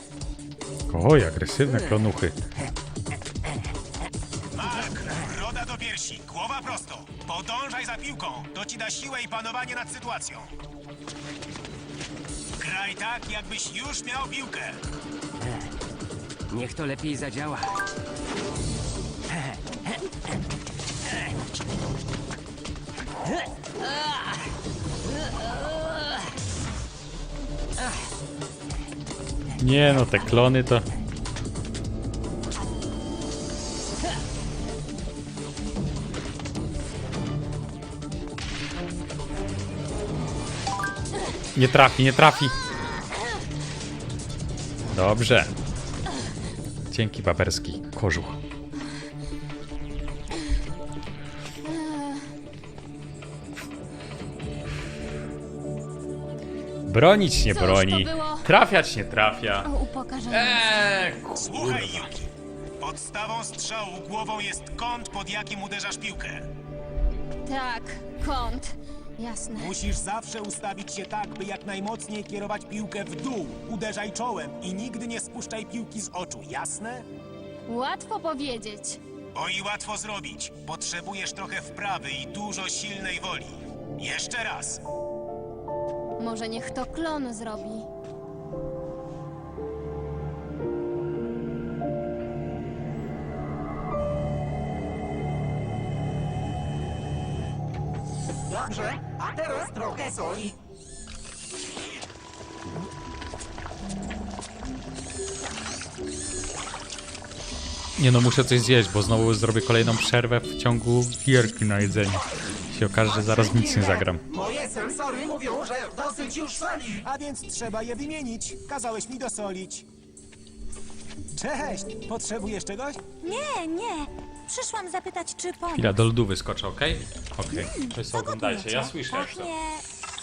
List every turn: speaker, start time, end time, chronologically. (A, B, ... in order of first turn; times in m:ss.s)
0:00.9-0:02.3 A
0:04.5-0:10.5 B
0:12.6-0:14.8 B
0:16.5-0:17.7 C
0:19.3-0:19.9 C
0:23.8-0:24.3 C
0:25.3-0:26.1 C
0:29.6-0:30.8 A
0:41.5-0:42.6 A
0:44.9-0:45.5 A
0:46.9-0:48.4 A
0:51.6-0:52.3 D
0:56.8-0:59.7 A
0:57.5-0:58.5 D
0:59.6-1:00.8 D
1:00.3-1:02.1 A
1:01.4-1:06.5 B
1:07.4-1:09.8 D
1:09.5-1:17.0 B
1:17.7-1:19.0 D
1:19.3-1:24.8 B
1:26.2-1:27.8 D
1:38.5-1:40.6 E
1:48.0-1:54.2 A
1:53.1-1:57.0 E
1:57.0-1:59.9 B
2:01.3-2:03.0 B
2:03.2-2:06.0 F
2:05.7-2:09.5 A
2:07.5-2:09.8 F